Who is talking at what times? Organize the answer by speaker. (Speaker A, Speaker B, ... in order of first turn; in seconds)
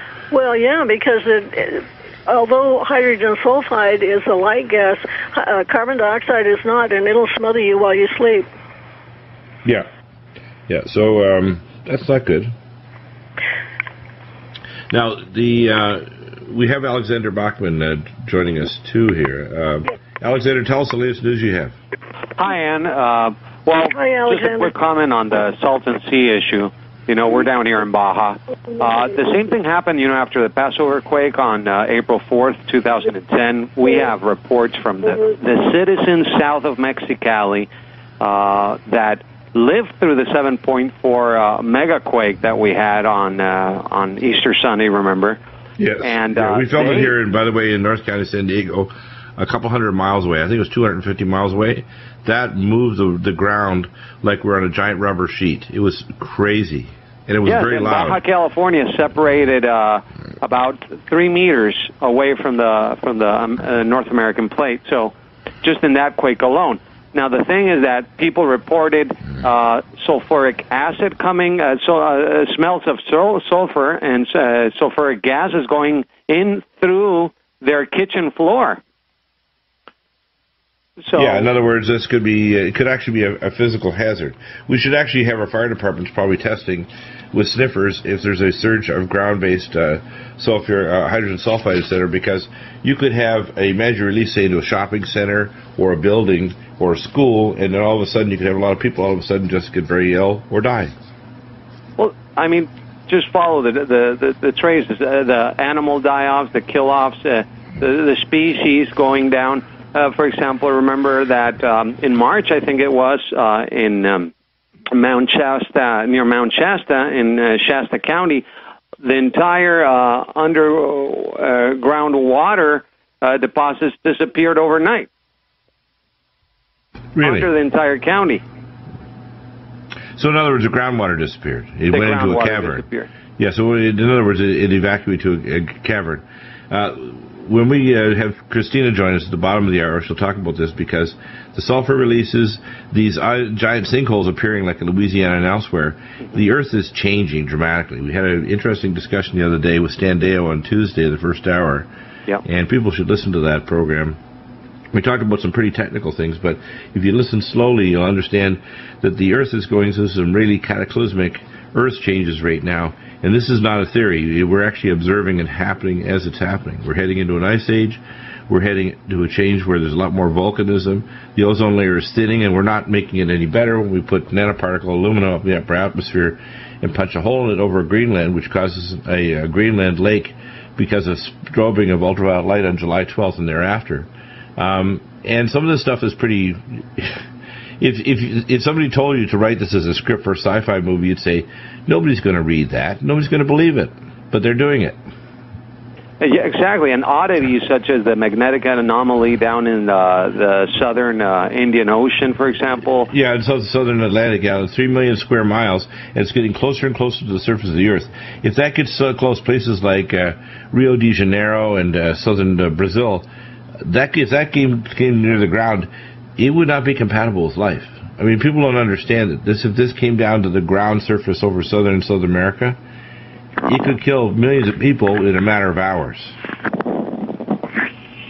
Speaker A: 0.3-8.5, 23.9-24.7
Speaker B: 10.7-12.5, 14.9-21.7, 45.8-58.2, 81.1-100.9, 127.2-127.5, 130.2-132.8, 133.4-151.9, 152.4-154.2, 154.9-187.2, 187.8-195.0, 203.1-213.3, 213.8-222.8, 223.7-226.3
Speaker C: 22.4-37.7, 38.2-45.4, 46.0-47.1, 57.4-78.8, 81.0-81.5, 102.0-114.3, 114.9-118.5, 119.0-125.1, 127.2-128.4, 131.9-133.1, 196.2-203.1